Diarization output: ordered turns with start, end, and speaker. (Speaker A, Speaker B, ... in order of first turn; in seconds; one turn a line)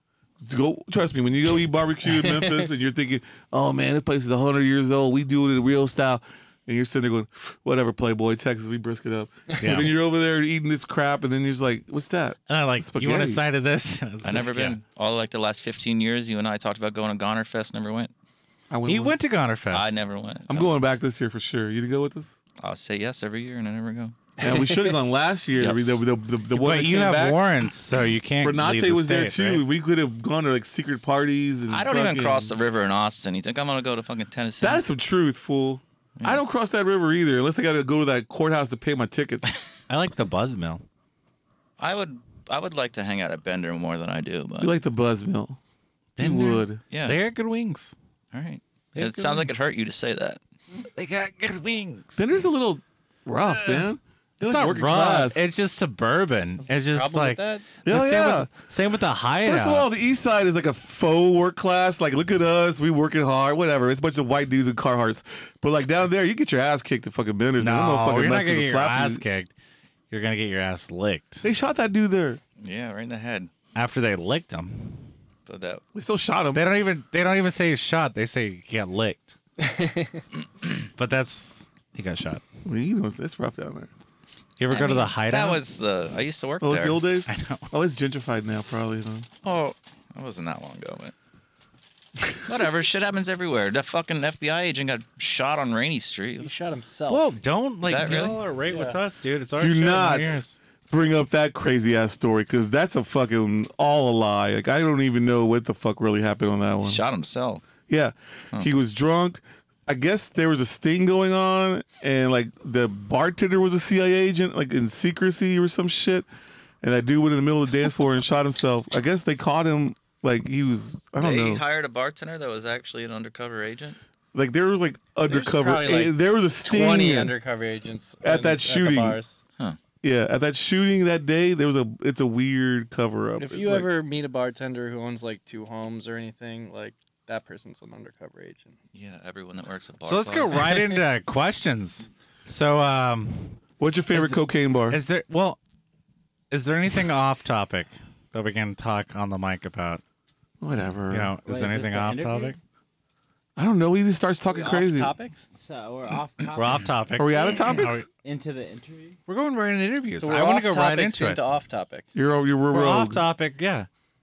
Speaker A: 0.4-13.4
Speaker B: 2.0-2.7
Speaker C: 9.6-9.9
Speaker C: 12.5-14.8
Speaker D: 14.2-18.1
Speaker A: 18.7-19.2
Speaker C: 18.9-19.9
Speaker D: 19.7-20.7
Speaker A: 20.5-22.3
Speaker D: 22.6-24.1
Speaker A: 24.4-27.4
Speaker B: 24.4-24.9
Speaker D: 25.6-26.0
Speaker C: 26.5-29.7
Speaker A: 28.4-32.5
Speaker D: 31.7-34.8
Speaker A: 34.6-39.6
Speaker C: 39.9-40.8
Speaker D: 41.8-44.7
Speaker A: 44.6-45.6
Speaker C: 46.2-47.9
Speaker A: 46.2-46.8
Speaker D: 46.9-47.2
Speaker D: 48.3-50.4
Speaker C: 49.0-49.6
Speaker C: 50.9-52.2
Speaker A: 52.1-55.4
Speaker C: 53.5-53.9
Speaker C: 54.4-59.9
Speaker B: 56.6-57.7
Speaker A: 57.8-58.5
Speaker A: 59.4-69.2
Speaker C: 67.6-69.5
Speaker C: 70.1-71.5
Speaker A: 71.4-72.4
Speaker D: 72.6-73.5
Speaker C: 73.7-75.0
Speaker D: 75.5-75.8
Speaker A: 75.9-76.6
Speaker C: 76.5-79.4
Speaker B: 79.6-80.2
Speaker C: 81.0-82.4
Speaker A: 82.6-83.9
Speaker C: 84.6-85.6
Speaker D: 84.7-87.0
Speaker A: 86.6-89.3
Speaker C: 87.3-87.7
Speaker D: 89.4-91.1
Speaker D: 92.5-96.5
Speaker B: 96.4-97.3
Speaker C: 97.1-100.6
Speaker D: 97.8-98.4
Speaker B: 98.7-99.0
Speaker A: 99.6-107.0
Speaker D: 106.8-107.6
Speaker A: 107.9-116.2
Speaker A: 116.8-121.6
Speaker D: 121.2-124.0
Speaker A: 124.3-127.3
Speaker B: 125.2-129.4
Speaker A: 128.2-129.2
Speaker A: 130.0-133.9
Speaker B: 133.4-138.8
Speaker D: 138.9-140.8
Speaker C: 140.0-143.6
Speaker A: 143.8-145.0
Speaker C: 144.1-145.6
Speaker C: 146.5-150.0
Speaker A: 150.6-151.3
Speaker C: 151.1-152.6
Speaker E: 151.4-152.6
Speaker A: 153.6-155.1
Speaker B: 154.5-155.5
Speaker E: 155.5-159.2
Speaker C: 156.6-158.1
Speaker A: 157.2-158.0
Speaker C: 159.3-161.4
Speaker B: 160.2-162.1
Speaker A: 162.1-163.2
Speaker C: 162.7-163.9